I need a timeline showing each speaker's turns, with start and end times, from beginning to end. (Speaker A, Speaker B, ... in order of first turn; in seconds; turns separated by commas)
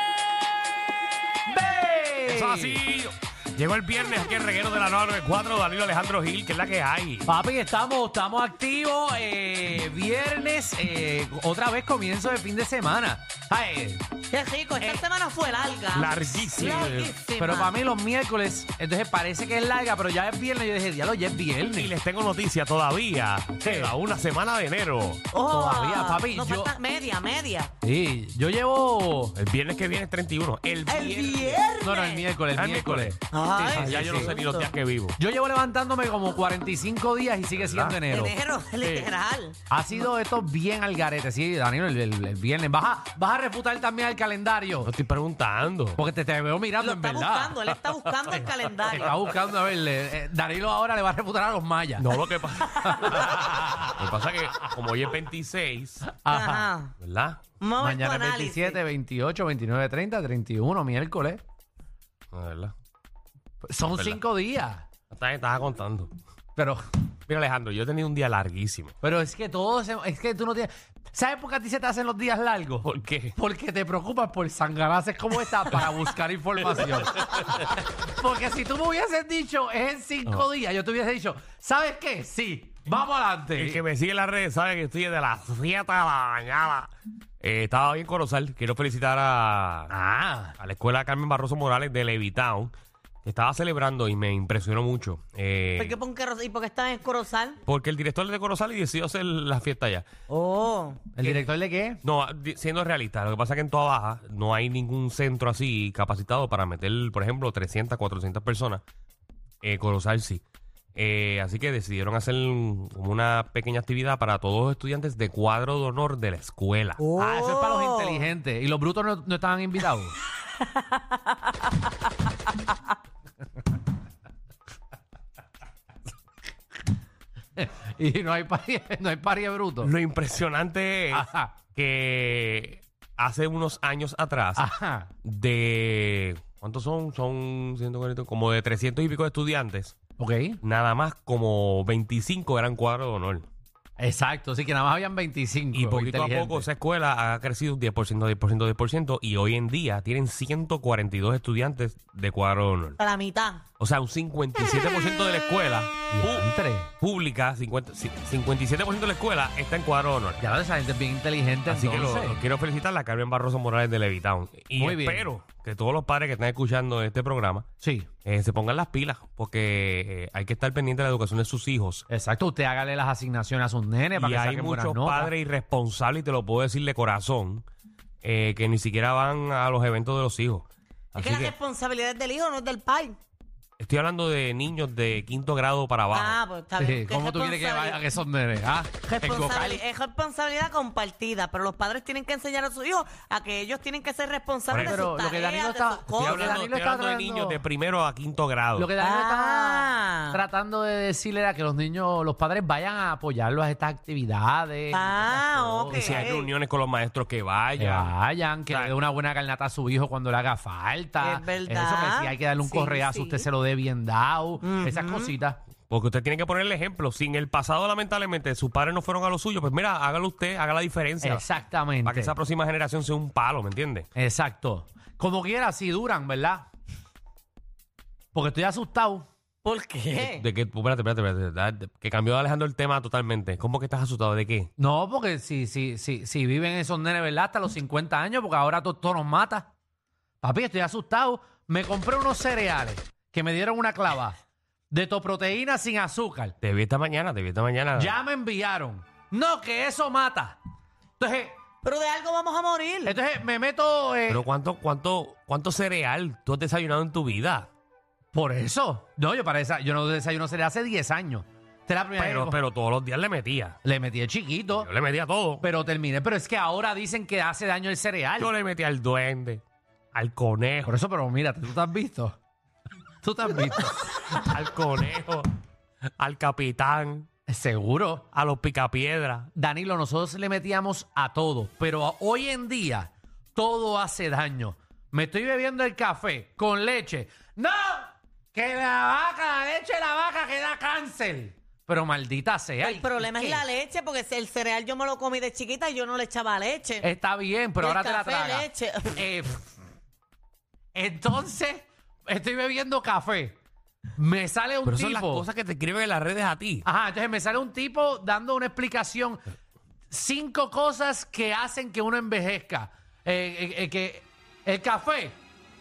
Speaker A: 1.5-2.8, Speaker B: 2.3-7.3, Speaker A: 7.3-14.0, Speaker C: 14.3-17.7, Speaker B: 15.9-17.1, Speaker A: 17.4-21.9, Speaker B: 21.6-25.2, Speaker A: 23.6-23.9, Speaker C: 25.3-27.7, Speaker A: 25.5-26.7, Speaker A: 27.8-29.4, Speaker B: 29.4-31.6, Speaker C: 30.9-32.3, Speaker A: 31.8-34.3, Speaker B: 32.5-33.2, Speaker C: 33.3-34.7, Speaker B: 33.7-35.2, Speaker A: 35.2-38.4, Speaker B: 37.6-38.0, Speaker C: 38.1-39.6, Speaker B: 38.8-39.1, Speaker A: 39.7-44.9, Speaker B: 44.8-46.0, Speaker A: 46.0-47.6, Speaker C: 46.8-49.1, Speaker B: 48.2-48.5, Speaker A: 48.9-52.1, Speaker B: 52.0-56.0, Speaker A: 52.8-54.0, Speaker A: 56.0-56.7, Speaker C: 56.3-56.9, Speaker B: 57.0-57.4, Speaker C: 57.6-58.8, Speaker A: 57.8-61.4, Speaker B: 62.3-62.7, Speaker A: 63.6-64.8, Speaker B: 63.9-64.2, Speaker B: 65.1-66.1, Speaker A: 66.6-66.8, Speaker B: 67.3-69.0, Speaker A: 69.0-83.8, Speaker B: 72.8-73.4, Speaker B: 76.7-77.7, Speaker B: 83.6-89.9, Speaker A: 89.9-90.6, Speaker B: 90.6-92.7, Speaker B: 93.2-96.0, Speaker C: 95.8-97.6, Speaker B: 97.7-100.1, Speaker C: 100.3-101.0, Speaker A: 101.1-102.0, Speaker B: 102.0-108.8, Speaker B: 109.6-110.4, Speaker B: 111.0-117.0, Speaker C: 117.0-118.2, Speaker A: 117.2-120.2, Speaker C: 120.6-121.7, Speaker A: 127.6-129.9, Speaker B: 129.8-134.7, Speaker A: 131.1-131.6, Speaker A: 134.6-135.1, Speaker B: 135.2-140.0, Speaker A: 140.2-140.6, Speaker B: 140.6-143.5, Speaker A: 144.0-146.7, Speaker B: 145.7-153.0, Speaker C: 153.0-153.6, Speaker B: 153.8-156.5, Speaker A: 156.1-156.9, Speaker B: 157.0-160.5, Speaker A: 160.4-162.4, Speaker B: 161.7-167.7, Speaker A: 164.8-165.3, Speaker A: 167.8-168.1, Speaker B: 168.2-172.0, Speaker A: 172.1-175.3, Speaker B: 174.2-177.7, Speaker B: 178.2-181.6, Speaker C: 181.2-183.2, Speaker B: 183.8-186.4, Speaker C: 186.1-188.0, Speaker A: 186.8-189.8, Speaker C: 189.1-196.6, Speaker B: 194.7-195.1, Speaker A: 194.7-197.6, Speaker B: 196.1-198.9, Speaker A: 198.8-206.3, Speaker C: 199.0-200.4, Speaker C: 204.9-206.5, Speaker B: 205.9-208.1, Speaker A: 207.8-215.6, Speaker B: 208.7-209.0, Speaker C: 211.2-213.5, Speaker C: 214.6-215.3, Speaker B: 215.9-221.5, Speaker A: 221.2-222.3, Speaker B: 222.1-224.1, Speaker A: 224.2-226.7, Speaker A: 228.3-229.2, Speaker C: 229.6-230.4, Speaker B: 230.2-234.7, Speaker A: 234.8-239.7, Speaker A: 240.4-244.4, Speaker A: 244.9-246.6, Speaker B: 246.6-248.1, Speaker A: 248.0-250.6, Speaker A: 251.2-251.6, Speaker C: 251.8-253.2, Speaker A: 253.0-254.4, Speaker B: 254.3-257.7, Speaker A: 258.3-262.6, Speaker B: 262.2-263.8, Speaker A: 263.8-264.9, Speaker B: 264.8-265.7, Speaker A: 265.6-268.5, Speaker B: 268.4-269.6, Speaker B: 270.1-270.9, Speaker A: 270.9-272.4, Speaker A: 273.2-274.2, Speaker B: 274.4-275.5, Speaker B: 276.2-277.3, Speaker A: 277.5-278.3, Speaker B: 278.3-279.5, Speaker A: 279.6-293.6, Speaker C: 292.8-297.1, Speaker A: 297.0-299.7, Speaker C: 297.8-299.2, Speaker A: 300.9-303.6, Speaker A: 304.2-305.5, Speaker B: 304.9-306.9, Speaker A: 306.9-309.4, Speaker A: 310.1-315.4